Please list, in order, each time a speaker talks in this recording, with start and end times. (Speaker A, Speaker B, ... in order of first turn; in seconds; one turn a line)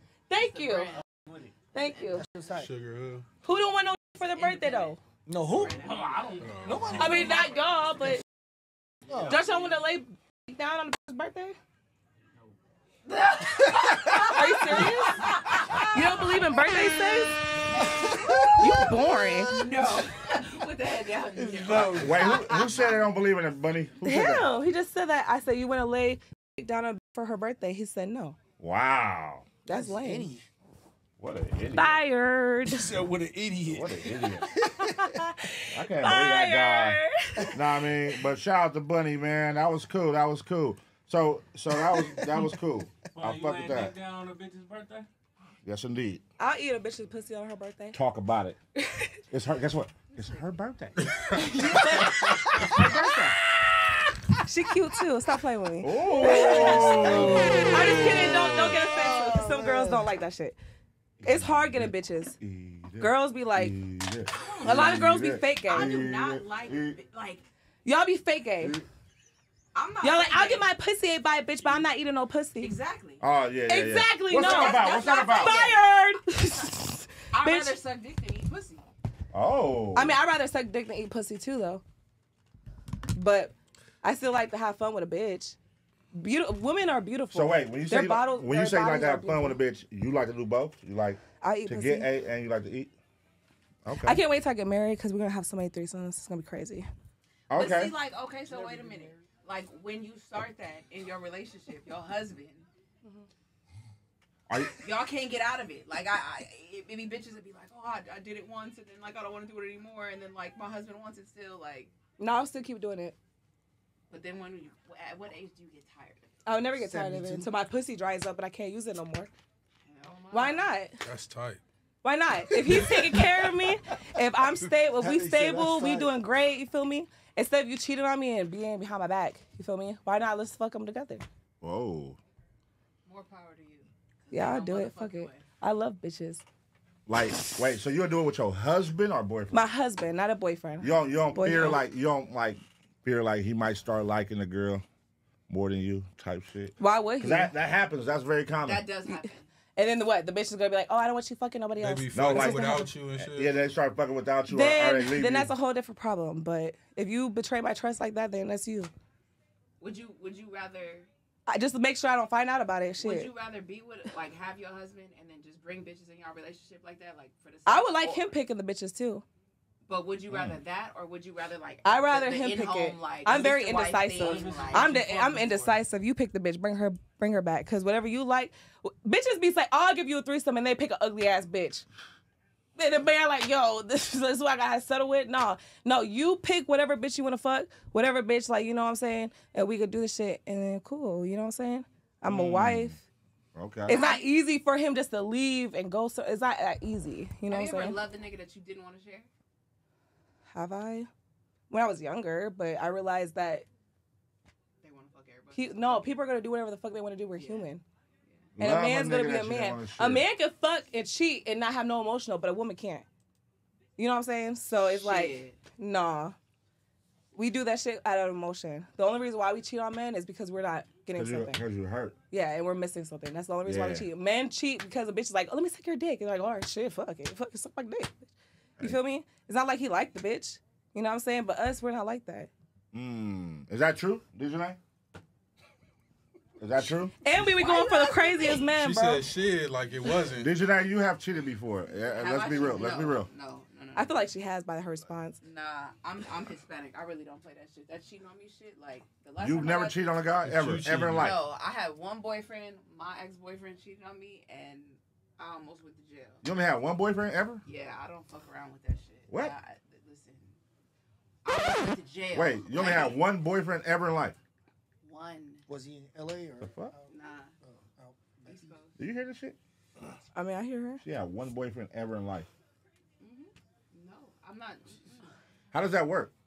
Speaker A: 0.3-1.0
Speaker B: 0.3-1.0
Speaker A: 1.7-2.2
Speaker C: 2.1-2.7
Speaker D: 2.5-3.2
Speaker A: 3.4-5.0
Speaker B: 4.4-4.9
Speaker C: 5.3-5.9
Speaker B: 5.5-7.5
Speaker D: 6.4-7.2
Speaker C: 6.6-7.4
Speaker A: 6.9-8.2
Speaker C: 9.1-9.4
Speaker A: 9.2-11.6
Speaker B: 13.0-16.4
Speaker A: 14.1-15.3
Speaker A: 15.8-17.4
Speaker B: 17.8-18.7
Speaker C: 17.8-18.7
Speaker A: 18.5-19.6
Speaker B: 19.4-23.1
Speaker C: 21.4-21.9
Speaker E: 21.6-24.5
Speaker A: 24.0-28.4
Speaker E: 28.6-29.5
Speaker A: 29.6-30.3
Speaker C: 29.7-30.4
Speaker E: 31.2-32.0
Speaker A: 31.7-32.9
Speaker C: 32.7-35.2
Speaker E: 33.6-34.5
Speaker A: 34.6-37.5
Speaker E: 35.7-37.0
Speaker E: 37.5-44.0
Speaker F: 43.2-45.1
Speaker E: 45.6-46.2
Speaker A: 46.4-48.0
Speaker E: 47.9-48.6
Speaker A: 48.8-49.2
Speaker E: 49.3-51.3
Speaker A: 51.4-53.4
Speaker B: 51.6-52.1
Speaker A: 54.4-60.6
Speaker E: 55.8-57.9
Speaker D: 57.0-58.0
Speaker C: 58.8-60.0
Speaker E: 61.2-67.0
Speaker A: 61.2-62.4
Speaker A: 63.0-63.7
Speaker B: 64.3-67.4
Speaker A: 64.6-66.0
Speaker A: 67.8-68.8
Speaker B: 69.7-70.7
Speaker A: 70.0-72.7
Speaker B: 72.6-73.2
Speaker E: 73.2-75.6
Speaker A: 73.7-77.7
Speaker B: 74.3-75.8
Speaker B: 77.3-78.9
Speaker E: 79.3-80.2
Speaker A: 79.9-81.8
Speaker A: 83.1-85.6
Speaker A: 86.1-89.6
Speaker E: 87.3-92.9
Speaker A: 91.4-92.1
Speaker E: 93.8-94.2
Speaker A: 94.0-96.9
Speaker E: 97.5-97.9
Speaker B: 97.5-102.7
Speaker C: 98.5-98.8
Speaker E: 104.5-104.8
Speaker B: 104.7-111.9
Speaker A: 112.2-113.2
Speaker B: 114.1-116.4
Speaker A: 116.5-119.3
Speaker C: 116.8-117.5
Speaker B: 119.9-120.7
Speaker A: 120.3-121.0
Speaker D: 121.0-121.6
Speaker A: 122.0-131.2
Speaker C: 124.9-126.2
Speaker E: 131.6-132.2
Speaker B: 133.1-135.4
Speaker A: 134.3-136.4
Speaker E: 137.1-139.7
Speaker A: 139.5-141.8
Speaker E: 140.8-144.8
Speaker E: 145.5-148.8
Speaker A: 146.8-147.5
Speaker B: 148.6-149.5
Speaker A: 149.7-152.9
Speaker D: 151.8-153.6
Speaker E: 152.1-155.5
Speaker A: 154.5-158.9
Speaker B: 159.8-161.1
Speaker A: 161.5-163.3
Speaker B: 163.0-168.3
Speaker A: 167.7-169.2
Speaker B: 169.8-175.8
Speaker E: 170.3-170.6
Speaker A: 171.8-181.8
Speaker F: 174.2-175.6
Speaker A: 182.8-193.0
Speaker E: 192.2-193.0
Speaker E: 193.5-194.0
Speaker A: 193.9-198.0
Speaker B: 193.9-194.2
Speaker B: 197.5-199.3
Speaker A: 200.5-201.1
Speaker A: 201.7-203.7
Speaker B: 204.8-206.2
Speaker A: 205.5-207.8
Speaker B: 207.3-207.7
Speaker B: 208.2-208.5
Speaker E: 208.5-210.3
Speaker A: 208.6-213.1
Speaker A: 214.0-216.3
Speaker B: 214.8-215.6
Speaker A: 217.3-221.6
Speaker E: 221.1-222.1
Speaker A: 222.3-232.5
Speaker E: 223.6-224.1
Speaker E: 232.9-234.8
Speaker E: 236.6-237.1
Speaker A: 237.2-239.3
Speaker B: 237.3-238.6
Speaker D: 238.6-240.5
Speaker E: 240.3-243.3
Speaker B: 242.0-244.2
Speaker A: 243.9-245.4
Speaker B: 245.4-250.1
Speaker E: 249.4-251.4
Speaker D: 250.4-251.3
Speaker B: 251.2-256.4
Speaker E: 256.4-257.6
Speaker B: 257.6-260.6
Speaker E: 259.3-259.5
Speaker B: 261.4-263.2
Speaker E: 262.3-264.4
Speaker B: 265.0-265.6
Speaker C: 265.7-268.7
Speaker E: 266.6-266.9
Speaker B: 267.1-267.5
Speaker B: 268.4-268.9
Speaker E: 269.0-269.6
Speaker A: 270.3-271.0
Speaker E: 271.0-272.5
Speaker B: 273.2-275.3
Speaker E: 275.7-276.3